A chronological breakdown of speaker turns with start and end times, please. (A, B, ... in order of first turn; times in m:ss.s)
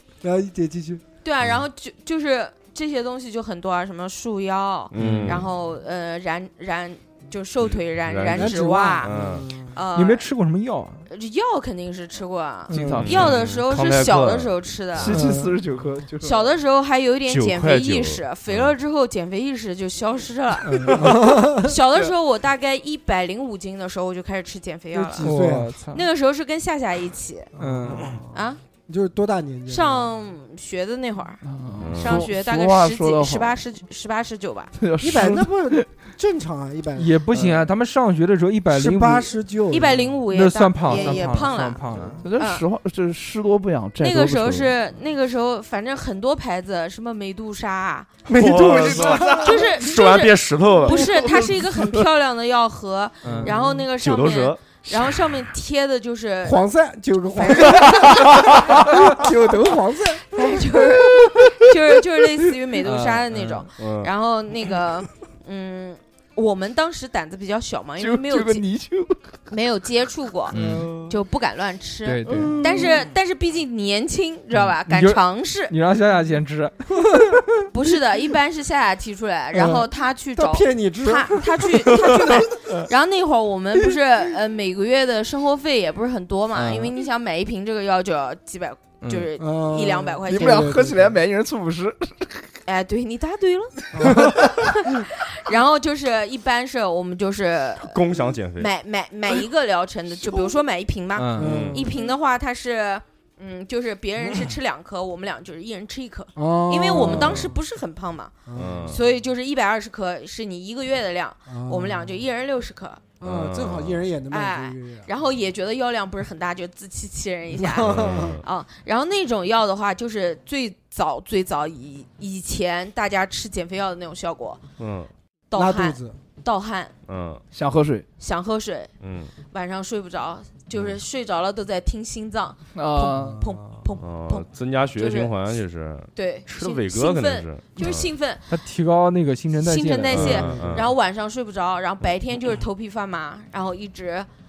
0:00.2-0:01.0 A
0:01.2-0:09.1 B
0:04.9-0:05.4 C
0:05.0-0:05.4 D
0:08.0-0:09.4 C
0:08.3-0:09.8 A
0:09.6-0:10.2 B
0:09.9-0:11.1 D
0:11.1-0:15.2 B
0:12.7-0:13.1 D
0:12.7-0:13.3 E
0:13.0-0:15.2 C
0:15.0-0:16.5 E
0:15.2-0:15.5 A
0:16.2-0:25.3 B
0:17.2-0:18.7 C
0:20.8-0:21.7 A
0:24.9-0:25.7 A
0:25.2-0:26.0 D
0:25.9-0:27.5 B
0:27.6-0:30.1 A
0:27.6-0:28.1 D
0:28.3-0:28.6 B
0:29.7-0:34.7 B
0:31.4-0:33.6 E
0:31.8-0:32.3 C
0:34.7-0:35.9 E
0:35.0-0:37.1 A
0:37.0-0:39.3 D
0:37.3-0:37.6 E
0:38.7-0:40.2 A
0:39.7-0:41.8 B
0:40.3-0:42.2 D
0:40.9-0:42.2 A
0:42.2-0:44.7 E
0:42.4-0:42.6 B
0:44.0-0:48.1 B
0:48.3-0:49.8 A
0:48.3-0:51.1 C
0:48.6-0:49.5 E
0:49.4-0:56.6 B
0:50.9-0:52.0 E
0:53.2-0:53.5 D
0:54.0-0:54.6 C
0:56.4-1:00.3 A
0:57.3-0:58.9 B
1:00.3-1:08.6 B
1:01.2-1:01.5 E
1:02.8-1:03.7 D
1:03.8-1:04.1 C
1:08.0-1:09.3 E
1:09.5-1:15.7 B
1:10.5-1:10.9 D
1:10.5-1:11.2 A
1:12.0-1:12.6 D
1:12.3-1:12.9 E
1:12.5-1:12.9 A
1:14.5-1:16.9 D
1:17.1-1:17.4 A
1:17.7-1:30.6 B
1:19.5-1:22.4 A
1:26.5-1:26.9 D
1:29.0-1:29.3 D
1:29.4-1:31.2 A
1:30.2-1:32.5 E
1:32.6-1:38.0 B
1:33.9-1:34.6 A
1:37.8-1:38.7 C
1:38.6-1:53.1 B
1:41.2-1:41.6 D
1:41.4-1:41.9 A
1:41.4-1:41.8 C
1:46.4-1:47.6 A
1:47.0-1:47.5 C
1:48.5-1:49.0 A
1:48.5-1:49.0 C
1:51.5-1:52.2 A
1:53.2-1:55.1 A
1:53.2-1:54.0 C
1:54.3-2:04.6 B
1:57.5-1:58.4 A
1:57.8-1:58.4 C
2:04.8-2:05.1 C
2:05.5-2:06.9 B
2:05.5-2:06.2 A
2:07.1-2:07.4 C
2:07.5-2:08.1 E
2:08.2-2:08.9 B
2:09.0-2:09.3 C
2:09.5-2:15.6 B
2:10.7-2:11.0 C
2:12.7-2:13.4 E
2:13.4-2:13.8 A
2:14.0-2:18.1 C
2:16.1-2:18.5 B
2:18.5-2:20.4 D
2:19.6-2:24.3 B
2:20.1-2:20.9 C
2:20.1-2:20.9 A